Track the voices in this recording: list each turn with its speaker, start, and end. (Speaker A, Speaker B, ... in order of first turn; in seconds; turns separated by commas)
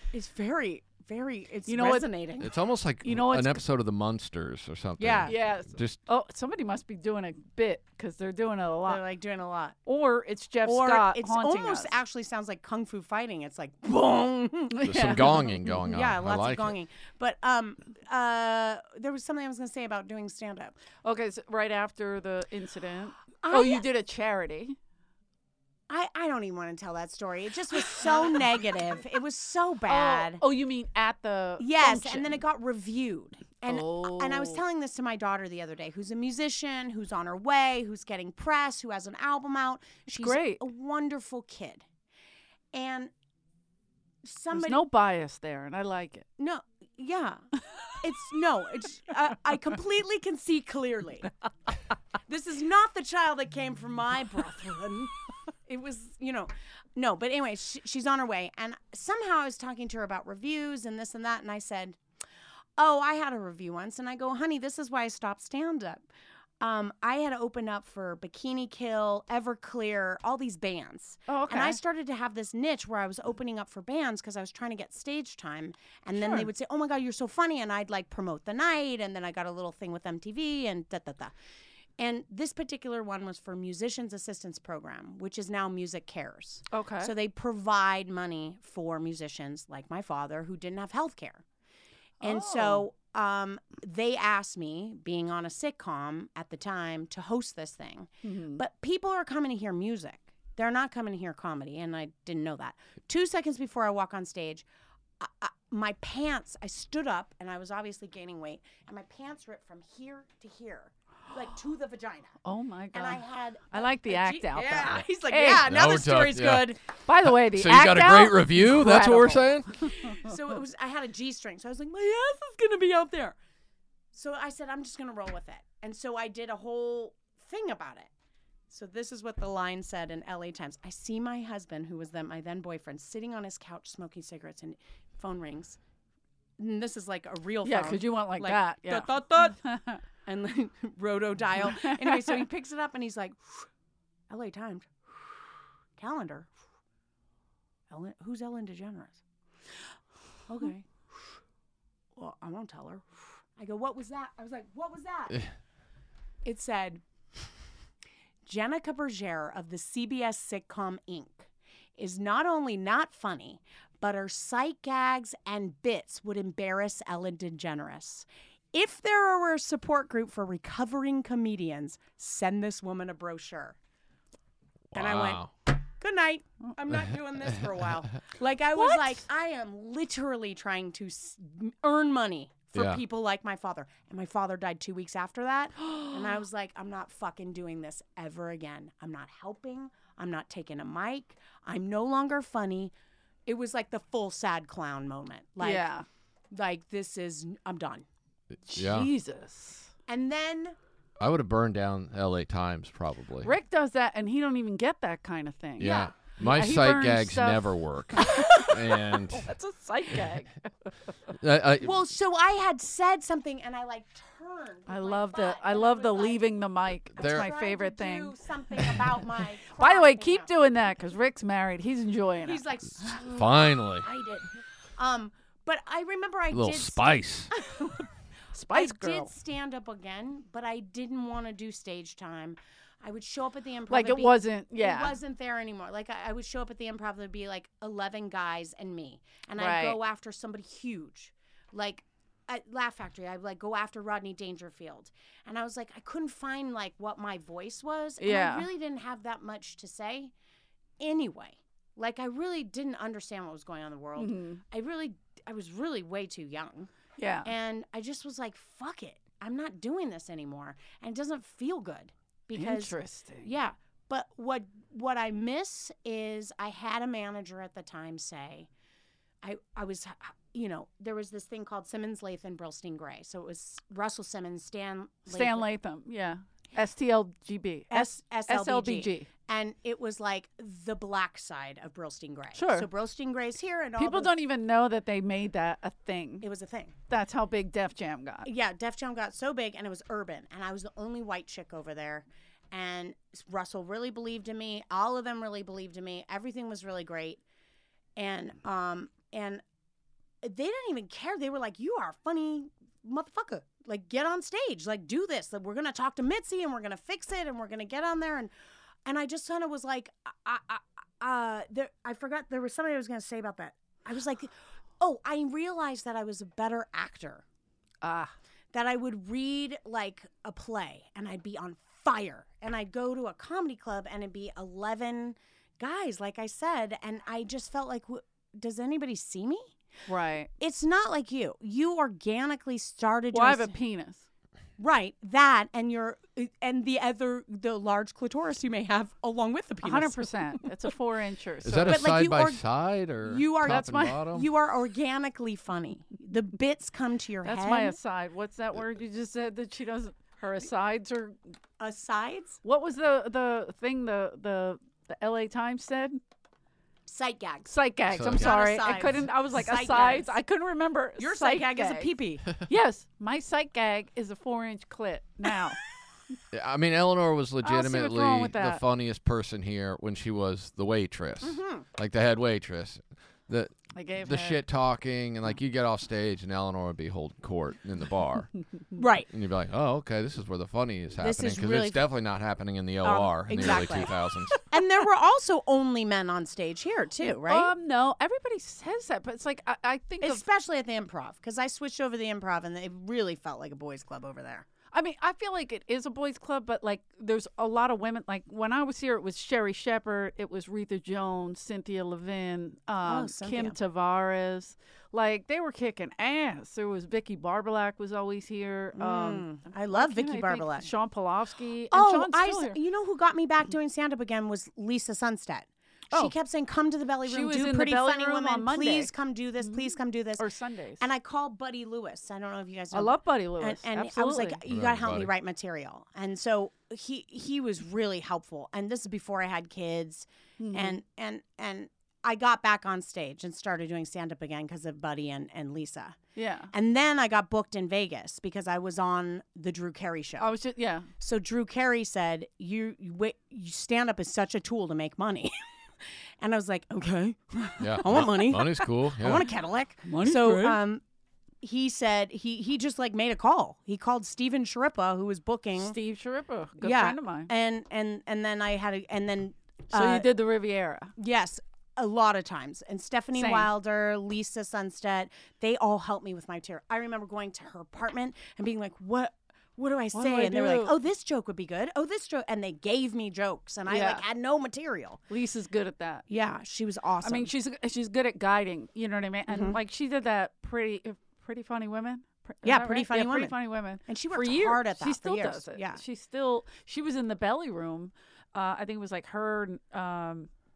Speaker A: 0.1-2.5, Speaker B: 1.7-2.1, Speaker C: 2.4-6.0, Speaker B: 3.0-3.6, Speaker A: 5.0-5.3, Speaker B: 5.3-9.0, Speaker A: 8.9-9.8, Speaker B: 9.8-11.9, Speaker A: 10.7-20.8, Speaker B: 14.7-15.5, Speaker C: 14.8-16.7, Speaker B: 21.0-24.8, Speaker A: 23.4-23.8, Speaker A: 25.9-30.4, Speaker B: 27.9-28.2, Speaker B: 29.9-32.3, Speaker A: 31.6-41.8, Speaker B: 33.7-34.6, Speaker B: 40.1-40.6, Speaker A: 42.7-43.1, Speaker A: 44.2-44.8, Speaker B: 44.5-46.2, Speaker A: 46.4-47.4, Speaker A: 48.0-51.3, Speaker A: 52.3-55.1, Speaker A: 55.7-62.0, Speaker A: 62.8-66.1, Speaker A: 66.6-81.3, Speaker B: 71.3-71.8, Speaker B: 76.2-76.5, Speaker A: 82.0-91.4, Speaker B: 86.7-87.1, Speaker B: 92.2-92.8, Speaker A: 92.2-104.7, Speaker B: 98.2-98.6, Speaker A: 105.2-112.4, Speaker B: 112.5-115.7, Speaker A: 112.9-116.8, Speaker C: 115.6-119.7, Speaker B: 117.1-120.3, Speaker A: 119.8-123.4, Speaker A: 124.1-128.1, Speaker A: 128.7-135.8, Speaker A: 136.6-139.6, Speaker B: 137.6-140.0, Speaker A: 140.3-143.7, Speaker B: 141.7-142.4, Speaker A: 144.3-146.5, Speaker A: 147.9-149.2, Speaker A: 150.5-151.0, Speaker A: 152.2-155.4, Speaker A: 156.4-157.0, Speaker A: 158.5-173.8, Speaker C: 174.9-175.5, Speaker A: 174.9-192.9, Speaker B: 178.8-179.2, Speaker C: 182.8-183.0, Speaker B: 185.9-186.2, Speaker A: 193.5-195.9, Speaker B: 195.6-196.1, Speaker A: 196.5-198.1, Speaker C: 198.5-199.1, Speaker B: 198.7-199.9, Speaker A: 200.1-200.8, Speaker C: 201.2-203.5, Speaker B: 203.4-210.9, Speaker C: 205.8-209.5, Speaker A: 205.8-206.1, Speaker C: 211.4-211.9, Speaker A: 211.8-216.5, Speaker B: 214.9-219.2, Speaker A: 217.2-220.5, Speaker C: 217.2-217.5, Speaker B: 219.7-223.1, Speaker A: 222.4-227.0, Speaker C: 223.2-224.1, Speaker C: 226.5-227.5, Speaker B: 227.7-228.0, Speaker B: 228.5-229.3, Speaker A: 228.7-250.3, Speaker B: 233.9-235.2, Speaker B: 239.6-240.0, Speaker B: 248.2-248.7, Speaker A: 251.0-256.9, Speaker B: 254.2-254.6, Speaker B: 257.2-257.5, Speaker A: 257.4-268.7, Speaker B: 262.6-263.5, Speaker A: 269.4-275.6, Speaker B: 275.3-279.3, Speaker A: 277.9-284.3, Speaker B: 282.5-282.9, Speaker B: 284.0-286.5, Speaker A: 286.4-286.9, Speaker B: 287.1-288.5, Speaker A: 288.4-297.4, Speaker A: 298.2-299.6, Speaker A: 300.4-308.5, Speaker A: 309.1-317.4, Speaker B: 318.0-318.3, Speaker A: 318.7-329.7, Speaker B: 330.1-330.5, Speaker A: 330.6-333.7, Speaker B: 333.3-334.3, Speaker A: 334.8-340.6, Speaker B: 339.8-342.0, Speaker C: 341.6-344.5, Speaker A: 341.9-342.6, Speaker A: 343.2-348.0, Speaker B: 343.6-344.2, Speaker B: 347.4-351.4, Speaker A: 351.8-352.6, Speaker B: 352.6-356.2, Speaker A: 357.1-357.8, Speaker B: 357.7-365.8, Speaker C: 358.1-358.5, Speaker A: 358.3-360.4, Speaker A: 361.2-362.5, Speaker C: 366.5-378.5, Speaker B: 367.6-368.8, Speaker A: 371.4-371.9, Speaker B: 373.9-374.6, Speaker A: 379.0-379.3, Speaker C: 379.3-384.6, Speaker A: 381.2-382.0, Speaker A: 383.0-384.1, Speaker A: 384.6-387.7, Speaker B: 387.2-390.4, Speaker A: 390.2-394.7, Speaker B: 394.9-412.8, Speaker A: 403.0-403.8, Speaker A: 408.9-410.9, Speaker A: 411.9-420.4, Speaker B: 417.3-419.1, Speaker B: 419.6-421.0, Speaker A: 421.0-436.2, Speaker B: 422.9-424.6, Speaker C: 424.7-425.3, Speaker B: 430.6-431.0, Speaker B: 436.4-436.7, Speaker A: 436.7-440.5, Speaker B: 440.4-441.1, Speaker A: 441.2-445.6, Speaker A: 446.4-451.0, Speaker C: 447.8-449.4, Speaker B: 450.0-450.8, Speaker A: 451.6-456.0, Speaker B: 455.8-457.5, Speaker A: 456.8-460.3, Speaker B: 459.9-461.1, Speaker A: 461.2-475.2, Speaker B: 463.3-463.7, Speaker B: 470.1-470.9, Speaker B: 473.9-474.2, Speaker B: 475.3-476.2, Speaker A: 476.3-477.5, Speaker B: 477.2-490.5, Speaker A: 479.5-479.8, Speaker A: 482.6-486.0